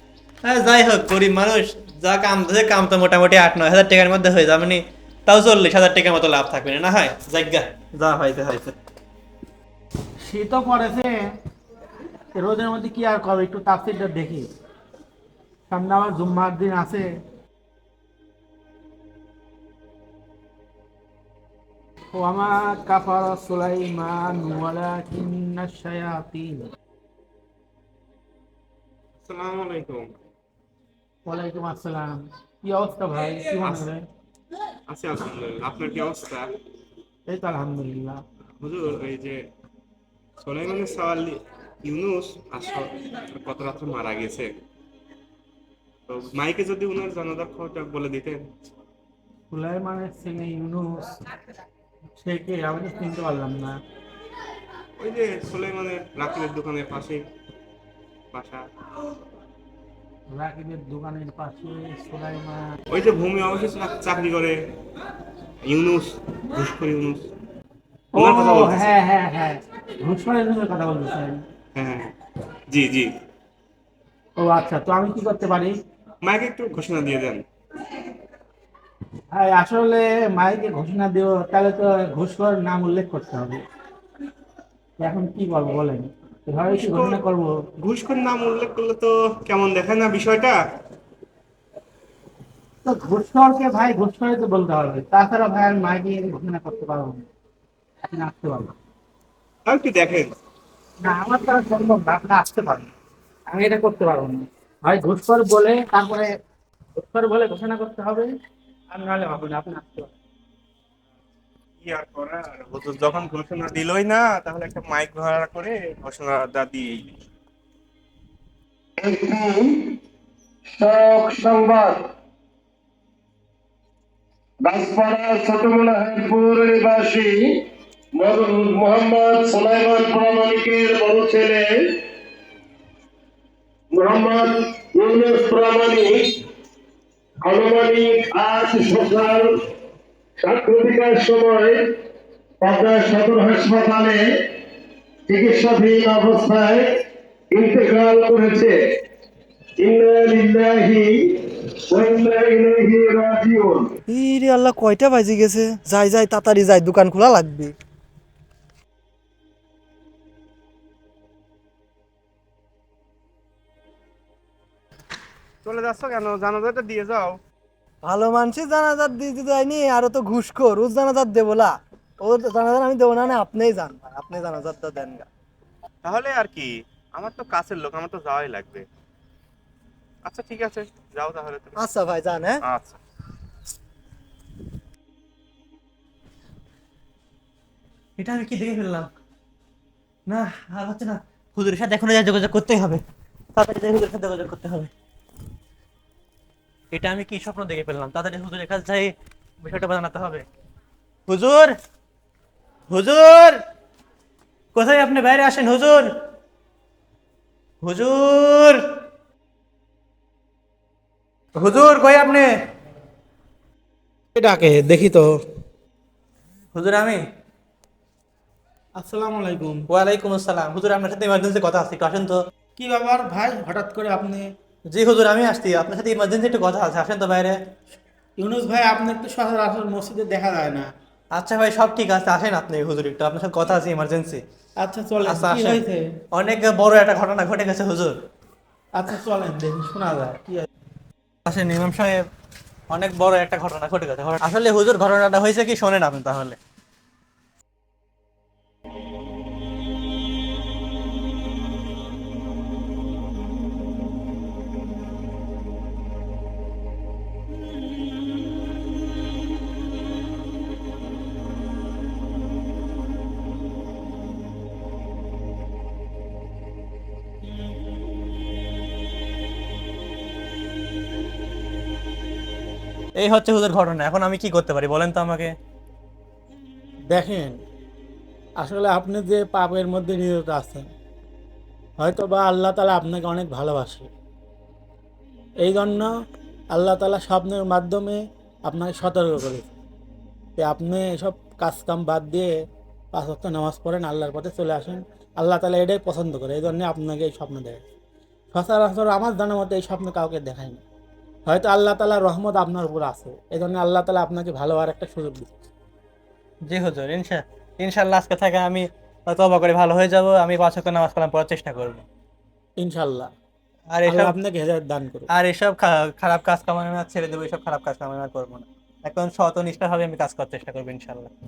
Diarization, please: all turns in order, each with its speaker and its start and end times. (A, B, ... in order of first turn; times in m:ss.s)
0:00.4-0:08.8 A
0:10.2-0:11.3 B
0:12.3-0:14.5 B
0:15.7-0:17.2 B
0:22.1-0:26.7 B
0:29.2-0:30.1 C
0:31.2-0:34.0 B
0:34.9-0:36.5 C
0:37.3-0:38.2 B
0:38.6-0:39.4 C
0:40.4-0:44.5 C
0:46.1-0:48.4 C
0:49.5-0:51.2 B
0:52.2-0:53.8 B
0:55.0-0:57.3 C
0:58.3-0:58.7 C
1:00.3-1:02.7 B
1:02.9-1:04.7 C
1:05.6-1:07.3 C
1:08.1-1:11.4 B
1:08.1-1:08.9 C
1:11.8-1:12.1 C
1:12.7-1:13.1 C
1:14.4-1:15.8 B
1:16.2-1:17.4 C
1:19.3-1:23.6 B
1:25.0-1:27.6 B
1:26.7-1:27.2 C
1:27.8-1:30.6 C
1:32.8-1:37.2 B
1:38.1-1:38.7 B
1:39.7-1:40.4 C
1:41.0-1:42.9 B
1:43.5-1:46.3 B
1:47.0-1:48.3 B
1:48.9-1:50.1 B
1:51.8-1:57.1 C
1:59.1-1:59.7 D
2:00.8-2:02.0 D
2:04.7-2:07.4 D
2:08.2-2:11.7 D
2:13.9-2:16.2 D
2:17.4-2:19.5 D
2:20.4-2:21.8 D
2:22.6-2:24.2 D
2:25.3-2:26.8 D
2:27.5-2:28.8 D
2:29.8-2:31.1 D
2:31.9-2:33.9 D
2:34.1-2:37.7 E
2:45.6-2:47.4 C
2:48.0-2:55.3 E
2:56.0-2:58.9 C
3:00.2-3:01.9 C
3:01.8-3:02.6 E
3:02.6-3:03.0 C
3:08.2-3:09.1 A
3:10.3-3:13.0 A
3:13.6-3:14.9 A
3:16.9-3:20.4 A
3:21.3-3:21.8 A
3:22.9-3:23.6 A
3:24.7-3:26.1 A
3:27.8-3:28.8 A
3:31.6-3:32.5 A
3:34.3-3:35.4 B
3:36.7-3:37.2 A
3:39.0-3:39.9 B
3:39.9-3:42.4 A
3:42.8-3:44.5 B
3:44.9-3:47.6 A
3:48.4-3:50.9 B
3:51.3-3:54.4 A
3:54.8-3:56.0 B
3:55.2-3:58.1 A
3:58.9-4:00.7 B
4:01.4-4:02.2 A
4:02.9-4:06.6 A
4:27.5-4:27.7 B
4:33.2-4:35.6 A
4:37.1-4:37.6 B
4:38.6-4:40.9 B
4:42.0-4:44.1 B
4:45.6-4:46.1 B
4:46.7-4:49.7 B
4:50.6-4:52.6 B
4:53.1-4:57.8 B
4:58.5-5:00.8 B
5:01.5-5:05.5 B
5:06.6-5:12.0 A
5:12.8-5:13.3 B
5:13.9-5:14.4 A
5:14.0-5:15.3 B
5:15.3-5:21.3 A